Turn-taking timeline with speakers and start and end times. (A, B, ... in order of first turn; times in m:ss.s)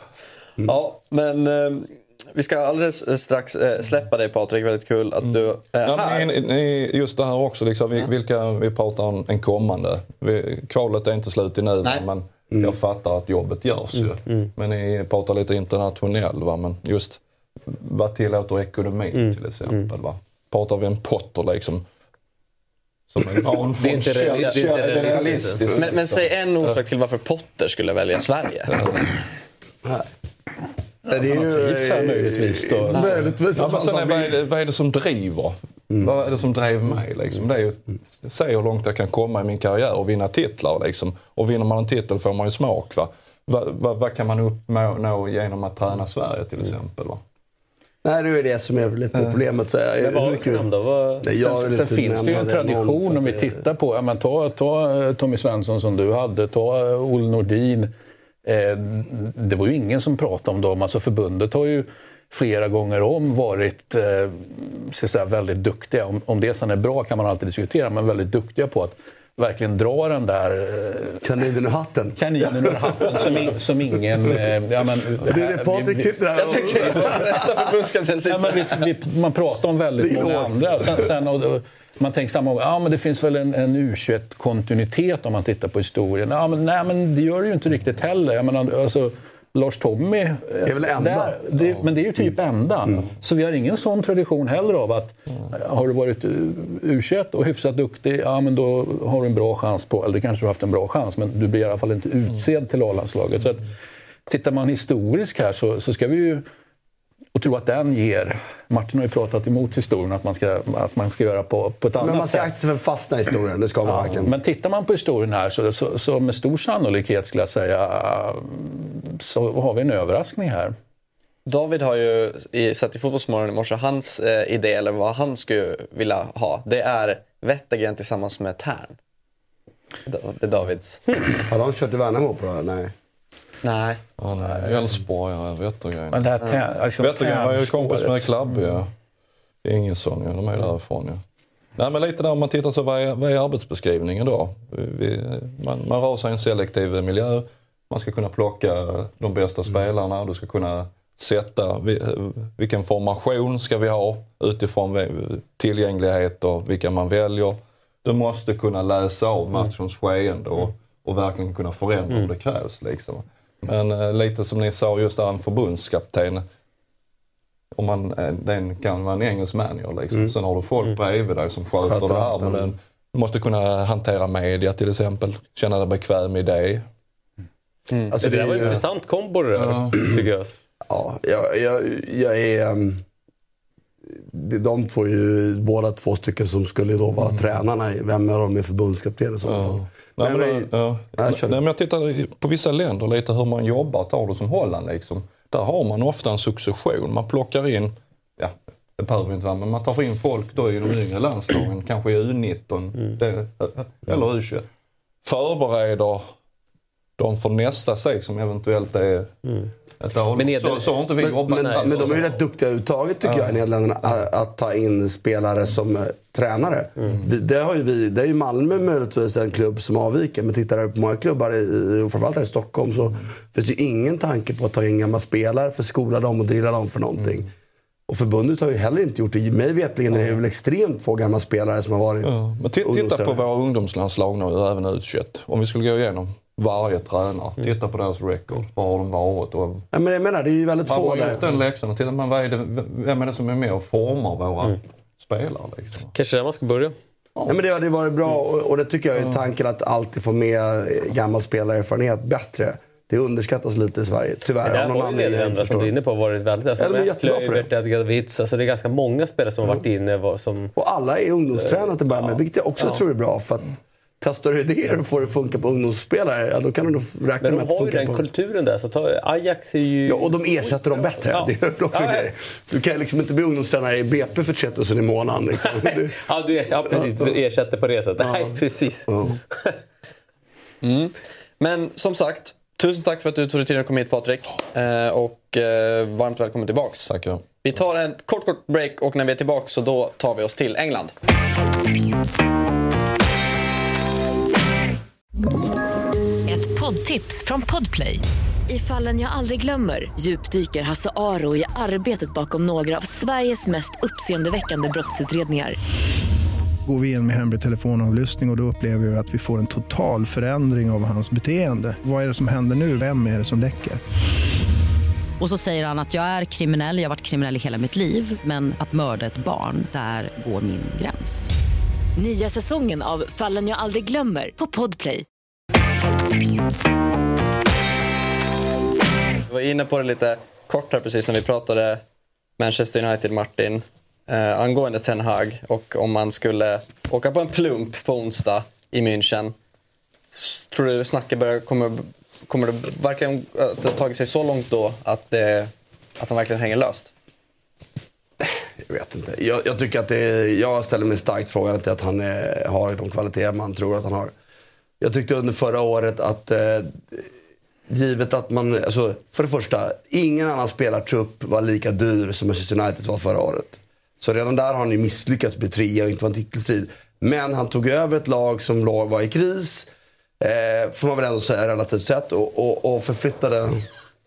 0:00.6-0:06.3 A
0:05.2-0:21.8 B
0:19.2-0:19.9 C
0:23.1-0:26.8 B
0:23.8-0:25.6 C
0:24.4-0:28.8 A
0:28.7-0:29.2 B
0:31.1-0:33.3 D
0:31.1-0:34.3 E
0:33.5-0:47.2 B
0:48.0-0:50.7 E
0:50.0-0:51.3 C
0:51.2-0:53.6 E
0:51.4-0:57.9 D
0:58.4-1:11.2 D
1:11.2-1:13.5 E
1:12.2-1:16.2 D
1:15.2-1:17.5 E
1:16.3-1:18.7 A
1:16.8-1:17.2 D
1:18.3-1:43.7 D
1:20.0-1:21.0 E
1:30.6-1:31.4 E
1:44.3-1:46.4 D
1:47.3-1:52.5 D
1:52.0-1:54.4 E
1:53.8-2:00.7 D
2:01.4-2:09.0 A
2:10.0-2:11.0 A
2:11.4-2:12.9 E
2:13.6-2:14.7 A
2:14.2-2:16.4 B
2:16.1-2:18.3 D
2:17.0-2:18.9 B
2:19.6-2:21.2 B
2:21.8-2:46.4 B
2:47.7-2:56.8 B
2:51.8-2:52.7 E
2:57.9-2:58.2 A
2:58.1-2:58.7 E
2:58.2-3:00.5 C
2:59.6-3:00.1 B
3:00.9-3:03.0 E
3:04.1-3:11.6 E
3:09.4-3:24.7 B
3:25.2-3:26.3 B
3:27.2-3:29.3 B
3:30.0-3:32.4 B
3:30.4-3:32.2 C
3:31.2-3:47.5 E
3:33.2-3:33.5 B
3:48.1-3:53.4 E
3:52.2-3:59.8 B
3:59.9-4:01.4 E
4:00.8-4:06.1 B
4:06.1-4:07.0 C
4:07.4-4:15.9 E
4:14.6-4:20.7 C
4:16.8-4:17.7 E
4:20.8-4:28.2 E
4:21.6-4:23.0 C
4:27.4-4:32.3 C
4:30.0-4:36.2 E
4:35.6-4:39.8 C
4:36.9-4:37.3 E
4:38.2-4:39.4 E
4:40.8-4:47.1 A
4:47.1-4:47.4 B
4:47.6-4:51.1 A
4:56.5-5:05.8 F
5:06.8-5:14.0 G
5:15.4-5:21.5 H
5:22.2-5:25.2 F
5:29.5-5:32.0 A
5:32.6-5:39.5 A
5:40.3-5:47.1 A
5:48.4-5:54.3 E
5:55.0-5:57.3 E
5:57.9-6:09.9 E
6:10.4-6:13.8 E